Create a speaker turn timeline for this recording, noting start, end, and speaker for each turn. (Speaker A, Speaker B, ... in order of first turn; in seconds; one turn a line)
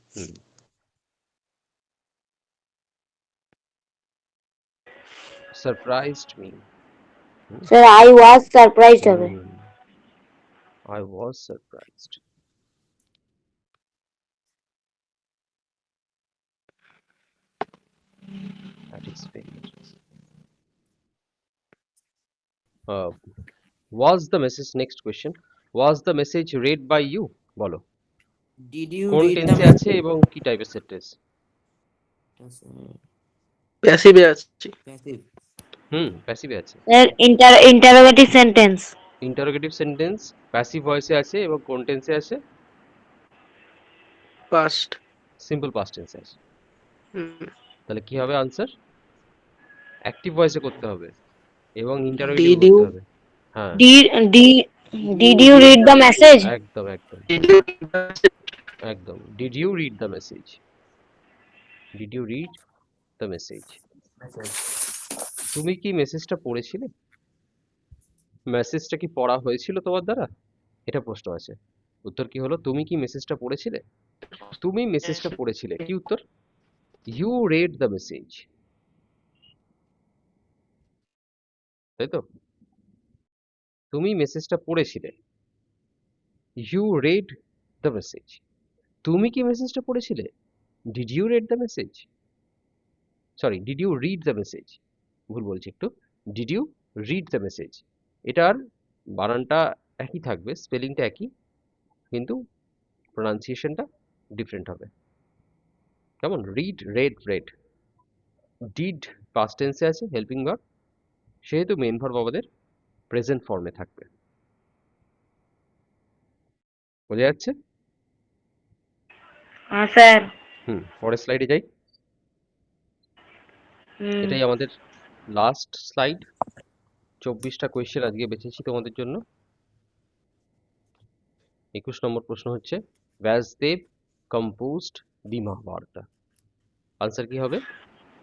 Speaker A: 5.5-6.6
Speaker B: 7.7-9.3
Speaker A: 9.0-9.7
Speaker A: 10.9-12.2
Speaker A: 18.9-19.8
Speaker A: 22.9-23.1
Speaker A: 23.9-27.8
Speaker C: 28.7-29.9
Speaker A: 29.1-31.2
Speaker C: 32.4-33.0
Speaker D: 33.8-34.7
Speaker C: 34.9-35.2
Speaker A: 35.9-36.8
Speaker B: 36.9-38.9
Speaker A: 39.2-42.4
Speaker D: 44.5-45.0
Speaker A: 45.4-46.4
Speaker D: 47.1-47.5
Speaker A: 47.9-48.7
Speaker A: 50.1-51.1
Speaker A: 51.8-53.0
Speaker D: 52.2-52.9
Speaker A: 53.6-53.8
Speaker B: 53.8-56.5
Speaker D: 55.4-55.7
Speaker A: 56.4-57.3
Speaker D: 57.3-58.3
Speaker A: 58.9-60.6
Speaker A: 62.0-62.6
Speaker A: 63.2-63.8
Speaker A: 65.5-66.9
Speaker A: 68.5-70.3
Speaker A: 70.9-73.8
Speaker A: 74.6-76.2
Speaker A: 77.1-78.5
Speaker A: 82.0-82.2
Speaker A: 83.9-85.2
Speaker A: 86.6-88.4
Speaker A: 89.0-90.3
Speaker A: 90.9-92.1
Speaker A: 93.4-98.6
Speaker A: 99.2-101.3
Speaker A: 102.1-102.4
Speaker A: 103.2-104.9
Speaker A: 106.2-107.5
Speaker A: 108.7-110.6
Speaker A: 111.5-112.5
Speaker A: 113.1-114.1
Speaker A: 117.1-117.5
Speaker B: 119.7-120.3
Speaker A: 120.7-121.7
Speaker B: 124.0-124.4
Speaker A: 124.2-124.7
Speaker A: 125.3-126.3
Speaker A: 127.2-129.2
Speaker A: 131.8-133.8
Speaker A: 134.3-136.1
Speaker A: 137.0-137.6